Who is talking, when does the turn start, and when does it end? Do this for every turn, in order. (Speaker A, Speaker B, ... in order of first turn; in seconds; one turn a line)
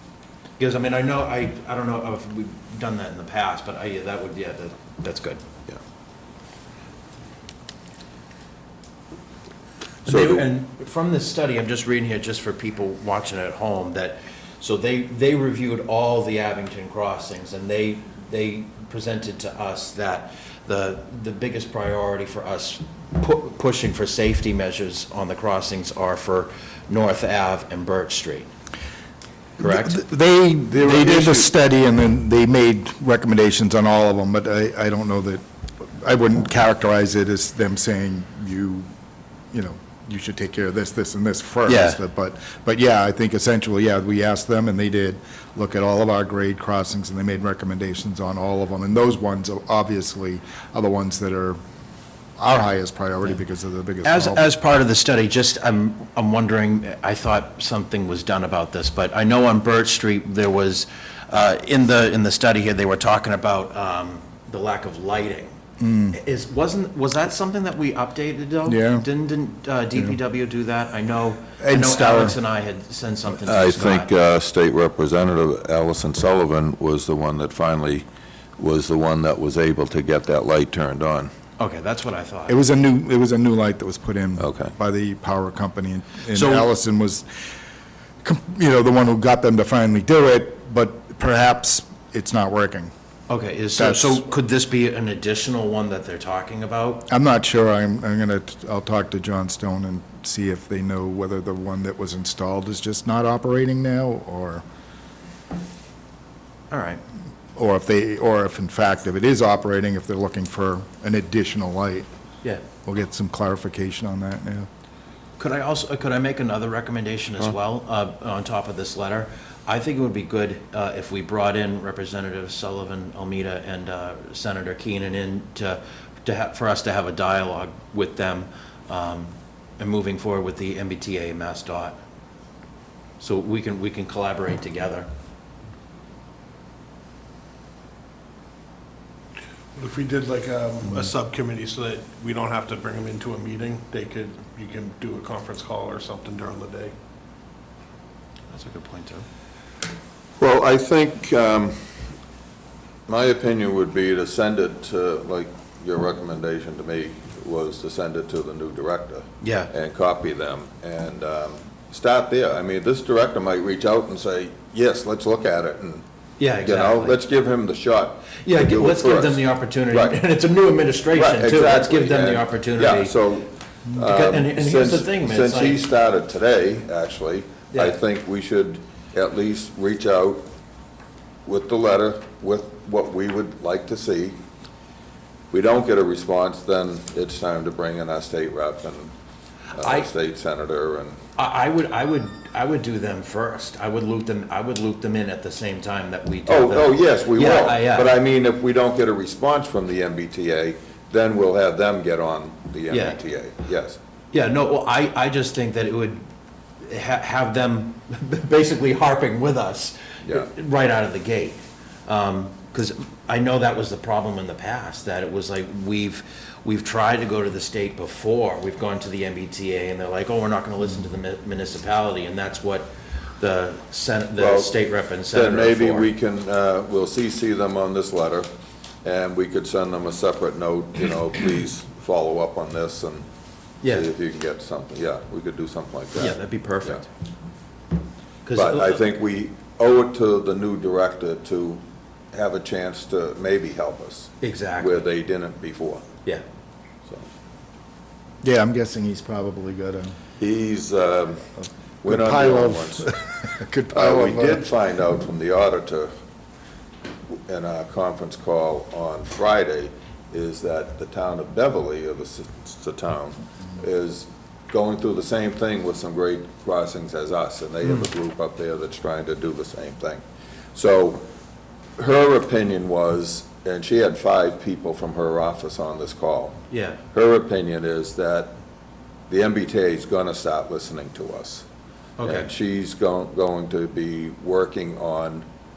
Speaker A: 0.6-5.4
Speaker A: 10.1-28.5
Speaker B: 10.1-10.5
Speaker A: 29.6-30.0
Speaker C: 29.6-38.8
Speaker A: 30.8-31.3
Speaker C: 39.5-51.6
Speaker A: 41.6-42.0
Speaker C: 52.4-54.5
Speaker A: 54.0-65.5
Speaker C: 65.8-66.2
Speaker A: 66.1-74.1
Speaker C: 68.7-69.0
Speaker C: 71.6-72.4
Speaker B: 73.4-78.0
Speaker B: 78.6-81.3
Speaker A: 81.6-82.6
Speaker C: 82.5-87.2
Speaker B: 84.4-84.7
Speaker A: 86.3-86.7
Speaker C: 88.2-92.9
Speaker A: 93.3-97.0
Speaker C: 93.8-94.2
Speaker C: 97.1-104.6
Speaker A: 106.7-107.0
Speaker C: 107.5-112.1
Speaker C: 112.8-114.7
Speaker A: 115.4-132.0
Speaker A: 133.2-135.1
Speaker D: 139.7-146.9
Speaker A: 148.5-149.2
Speaker B: 150.4-152.1
Speaker B: 153.1-166.0
Speaker A: 159.4-159.7
Speaker A: 166.4-167.2
Speaker B: 166.6-170.2
Speaker A: 168.4-173.1
Speaker B: 171.1-180.4
Speaker A: 174.0-175.8
Speaker A: 177.7-178.0
Speaker B: 181.4-184.4
Speaker B: 185.5-189.1
Speaker B: 189.7-191.2
Speaker A: 189.8-190.1
Speaker A: 191.3-198.1
Speaker B: 196.4-204.0
Speaker A: 202.9-203.2
Speaker A: 204.3-206.2
Speaker A: 206.8-226.1
Speaker B: 210.2-210.5
Speaker B: 224.4-224.7
Speaker B: 225.3-228.5
Speaker B: 229.0-233.2
Speaker A: 233.8-234.1
Speaker B: 233.8-237.0
Speaker A: 236.2-237.1
Speaker A: 238.4-239.0
Speaker B: 238.5-246.1
Speaker A: 244.4-245.1
Speaker C: 248.4-250.1
Speaker B: 250.4-253.1
Speaker C: 252.0-254.6
Speaker B: 253.9-256.1
Speaker B: 257.5-270.2
Speaker B: 270.7-271.2
Speaker B: 272.0-276.6
Speaker A: 276.7-277.0
Speaker B: 277.1-278.5
Speaker B: 279.3-281.6
Speaker A: 282.2-282.5
Speaker B: 282.2-285.4